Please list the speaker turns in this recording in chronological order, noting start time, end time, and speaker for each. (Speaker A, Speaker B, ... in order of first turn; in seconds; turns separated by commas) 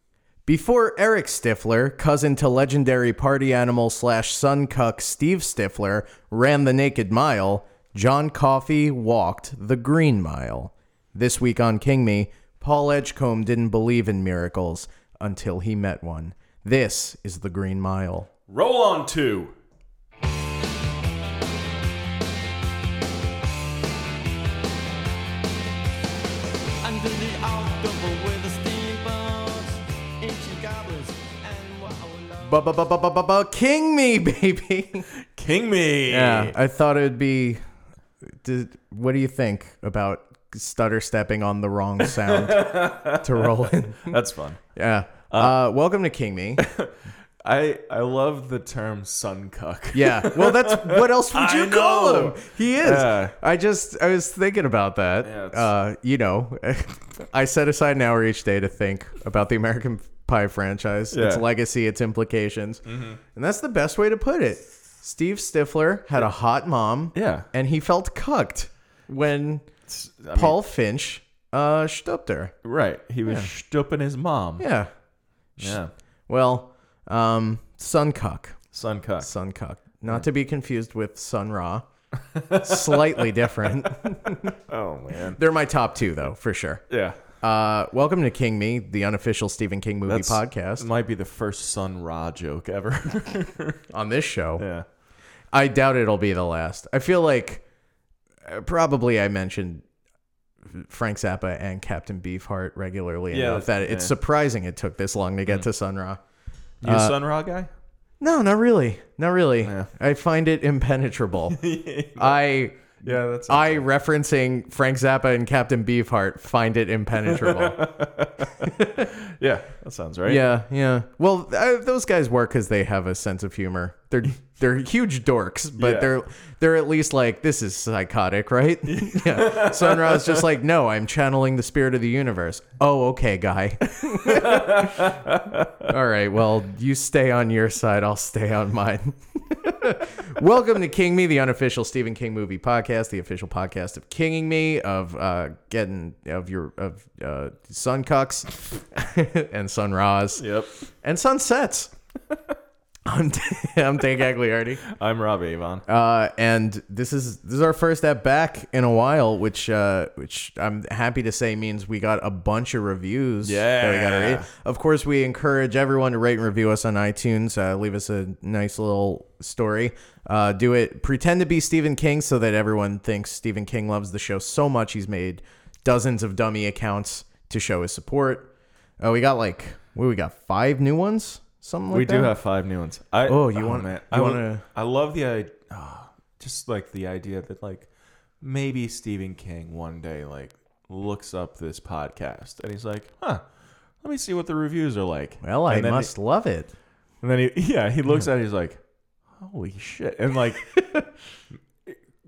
Speaker A: 0.5-18.3, Speaker B: 18.5-19.5, Speaker C: 26.8-32.6, Speaker A: 32.4-35.1, Speaker B: 35.1-36.5, Speaker A: 36.1-37.6, Speaker A: 38.4-44.2, Speaker B: 42.0-43.5, Speaker B: 44.1-44.6, Speaker A: 44.8-46.6, Speaker B: 45.3-45.5, Speaker B: 46.6-53.3, Speaker A: 49.9-69.7, Speaker B: 55.2-55.7, Speaker B: 61.1-61.4, Speaker B: 62.9-63.2, Speaker B: 67.1-67.5, Speaker B: 69.9-70.6, Speaker A: 70.3-72.5, Speaker B: 72.6-74.7, Speaker A: 74.6-74.9, Speaker B: 75.6-75.9, Speaker A: 75.6-78.6, Speaker B: 78.7-79.3, Speaker A: 79.2-81.8, Speaker B: 82.3-83.2, Speaker A: 82.6-84.5, Speaker B: 84.7-85.4, Speaker A: 85.3-86.8, Speaker B: 86.9-87.2, Speaker A: 87.4-90.9, Speaker B: 90.1-93.8, Speaker A: 93.9-94.6, Speaker B: 94.6-94.9, Speaker A: 95.5-97.6, Speaker A: 98.4-99.8, Speaker A: 100.7-106.2, Speaker B: 103.3-104.1, Speaker B: 106.8-107.7, Speaker A: 106.8-107.2, Speaker A: 108.2-111.6, Speaker B: 109.6-109.9, Speaker B: 111.5-112.4, Speaker A: 112.2-117.9, Speaker B: 113.0-113.8, Speaker B: 117.3-120.4, Speaker A: 118.6-119.1, Speaker A: 120.2-135.1, Speaker B: 125.8-126.1, Speaker B: 128.8-130.4, Speaker B: 134.2-135.8, Speaker A: 135.9-150.4, Speaker B: 150.4-150.7, Speaker A: 151.0-151.9, Speaker A: 153.1-154.8, Speaker B: 154.8-155.8, Speaker A: 155.9-178.5, Speaker B: 163.4-164.5, Speaker A: 179.0-182.3, Speaker B: 181.9-187.9, Speaker A: 183.3-184.6, Speaker B: 188.4-193.4, Speaker B: 194.0-196.1, Speaker A: 195.4-196.7, Speaker B: 197.2-198.8, Speaker B: 199.4-200.8